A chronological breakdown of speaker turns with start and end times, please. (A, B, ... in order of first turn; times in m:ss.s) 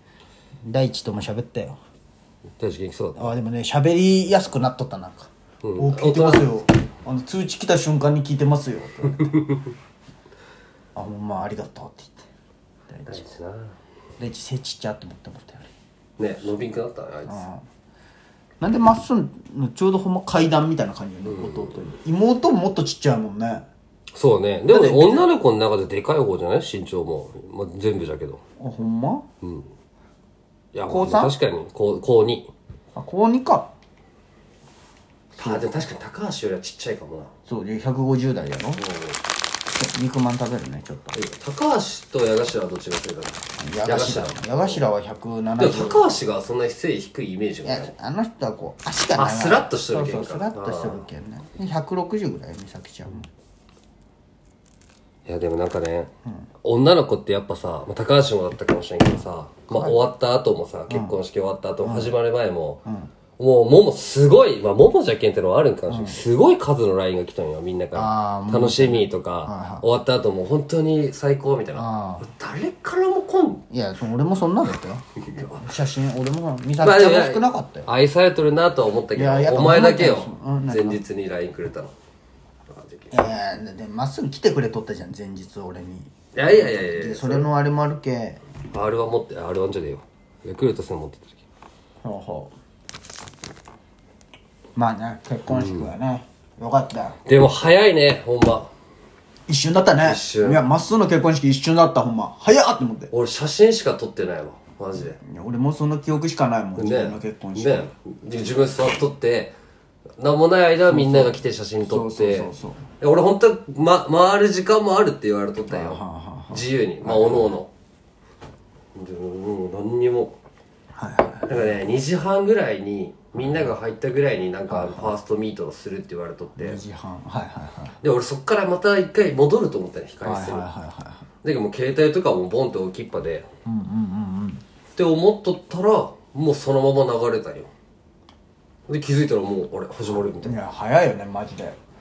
0:00.6-0:01.8 A
0:02.6-0:03.3 B
0:03.2-0:09.5 A
0:05.6-0:06.6 B
0:09.3-0:09.7 B
0:11.0-0:12.3 A
0:12.9-0:13.3 A
0:13.1-0:13.8 B
0:14.2-0:15.7 A
0:16.2-0:17.5 B
0:17.3-0:17.6 A
0:18.6-0:23.7 A
0:21.2-0:22.0 B
0:24.1-0:28.4 B
0:24.7-0:25.3 A
0:28.6-0:29.3 A
0:29.4-0:29.7 B
0:30.7-0:32.5 B
0:30.9-0:31.4 A
0:33.0-0:33.7 A
0:35.3-0:35.8 A
0:35.4-0:37.3 B
0:37.5-0:38.8 A
0:38.8-0:39.2 B
0:39.7-0:41.2 A
0:41.1-0:44.9 B
0:43.6-0:46.2 A
0:45.6-0:47.9 B
0:47.6-0:53.3 A
0:49.2-0:51.1 B
0:55.3-0:56.1 B
0:56.6-1:02.8 B
0:59.7-1:00.0 A
1:00.9-1:01.2 A
1:01.8-1:02.2 A
1:02.9-1:03.1 A
1:03.4-1:13.6 B
1:05.9-1:06.2 A
1:07.9-1:09.9 A
1:11.8-1:12.3 A
1:13.7-1:17.9 A
1:15.2-1:15.7 B
1:16.8-1:21.9 B
1:19.1-1:21.0 A
1:22.7-1:23.2 B
1:23.1-1:28.4 A
1:26.4-1:27.5 B
1:28.7-1:31.4 B
1:32.0-1:32.5 A
1:34.8-1:37.2 A
1:35.5-1:35.9 B
1:37.3-1:38.7 B
1:39.5-1:43.1 A
1:40.0-1:40.6 B
1:43.1-1:45.2 B
1:45.2-1:47.9 A
1:46.8-1:49.6 B
1:50.2-1:57.7 B
1:50.9-1:52.8 A
1:55.7-1:57.6 A
1:59.0-2:00.4 B
2:01.0-2:01.5 A
2:01.5-2:06.8 B
2:03.4-2:03.7 A
2:04.7-2:05.1 A
2:06.6-2:08.0 A
2:08.0-2:10.7 B
2:10.2-2:11.3 A
2:11.4-2:13.5 B
2:13.6-2:14.6 A
2:15.0-2:17.7 B
2:18.9-2:20.6 B
2:20.4-2:21.8 A